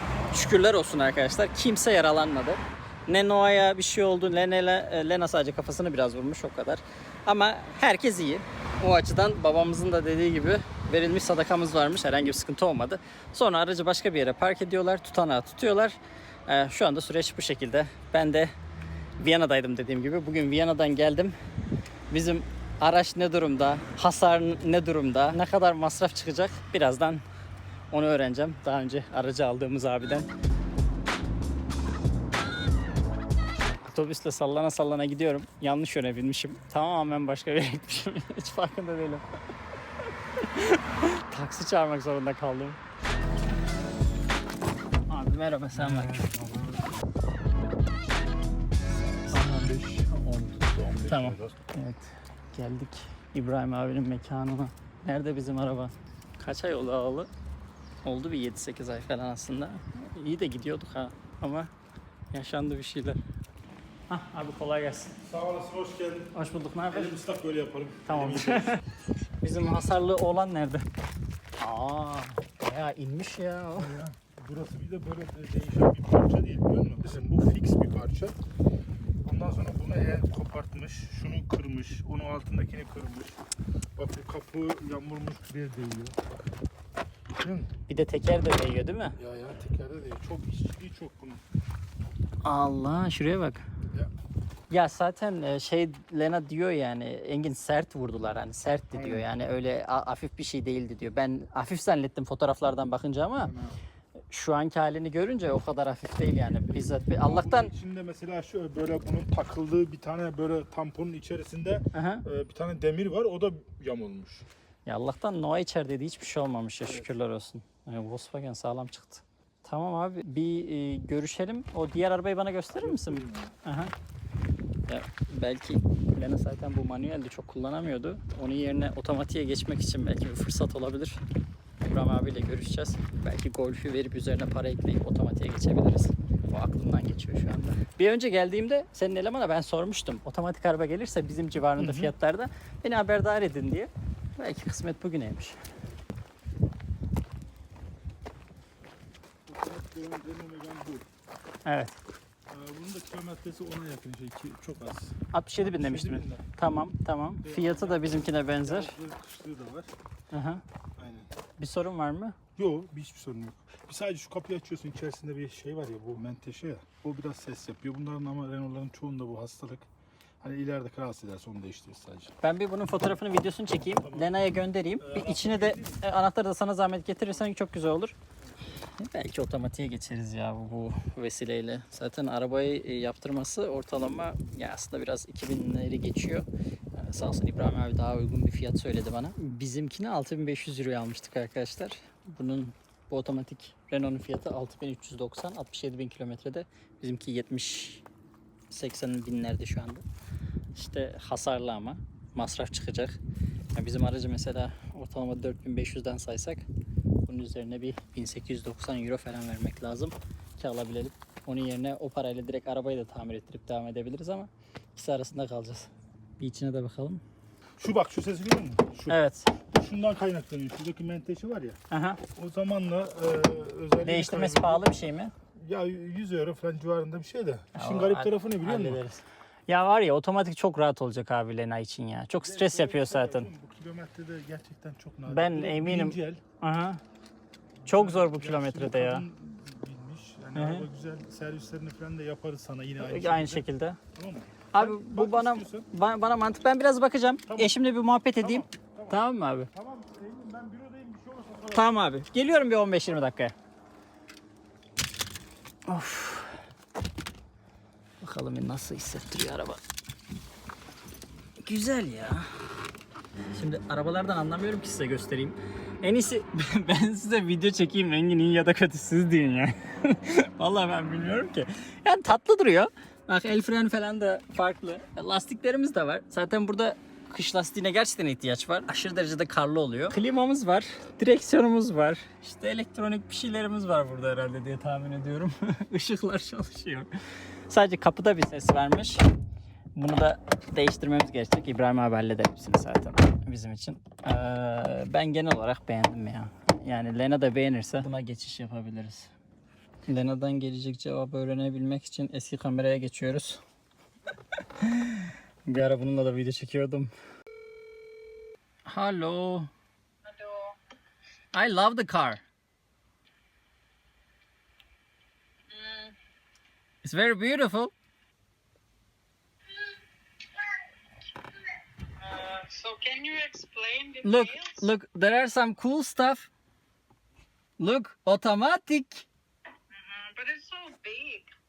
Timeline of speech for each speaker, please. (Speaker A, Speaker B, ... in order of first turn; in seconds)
Speaker A: 0.3-18.5, 19.2-21.4, 22.1-27.2, 27.9-30.3, 33.9-39.2, 40.4-42.8, 45.1-46.2, 51.1-57.3, 58.0-61.7, 62.3-63.2, 64.1-65.1, 66.3-67.2, 68.1-68.8, 69.4-70.9, 71.6-74.0, 87.9-89.2, 92.4-93.6, 94.7-103.5, 104.3-107.7, 111.9-112.2, 114.9-123.9, 124.9-131.2, 131.8-145.6, 151.7-152.0, 155.3-158.9, 160.3-160.6, 161.6-162.4, 172.4-178.2, 179.0-198.0, 198.7-200.1, 200.8-203.2, 203.8-206.7, 207.3-217.2, 219.1-219.5, 221.9-222.2, 224.0-225.3, 227.8-233.5, 235.3-237.0, 237.9-239.2, 240.6-240.9, 243.0-244.0, 244.7-249.7, 251.7-253.6, 255.9-256.5, 258.2-259.8, 261.6-262.5, 263.5-287.1, 287.7-289.2, 289.9-299.3, 300.1-303.6, 304.8-307.1, 308.9-309.7, 311.5-312.4, 317.0-317.9, 324.2-326.5, 327.8-329.3
Speaker B: 45.8-46.9, 49.0-51.5, 65.2-66.3, 66.9-68.8, 73.8-78.4, 79.2-83.4, 84.0-86.2, 87.4-87.7, 89.2-91.4, 98.9-99.3, 103.4-103.8, 106.7-114.5, 116.9-117.1, 122.8-123.5, 141.8-142.1, 149.5-151.1, 152.5-156.5, 157.4-159.9, 161.0-161.3, 162.6-169.9, 170.4-172.3, 173.9-174.4, 175.0-176.0, 217.8-219.2, 219.7-221.8, 222.4-224.9, 225.6-229.0, 232.4-236.4, 237.8-245.9, 247.5-247.8, 248.4-252.0
Speaker C: 310.3-310.8, 315.7-316.1, 322.2-324.8, 329.9-331.5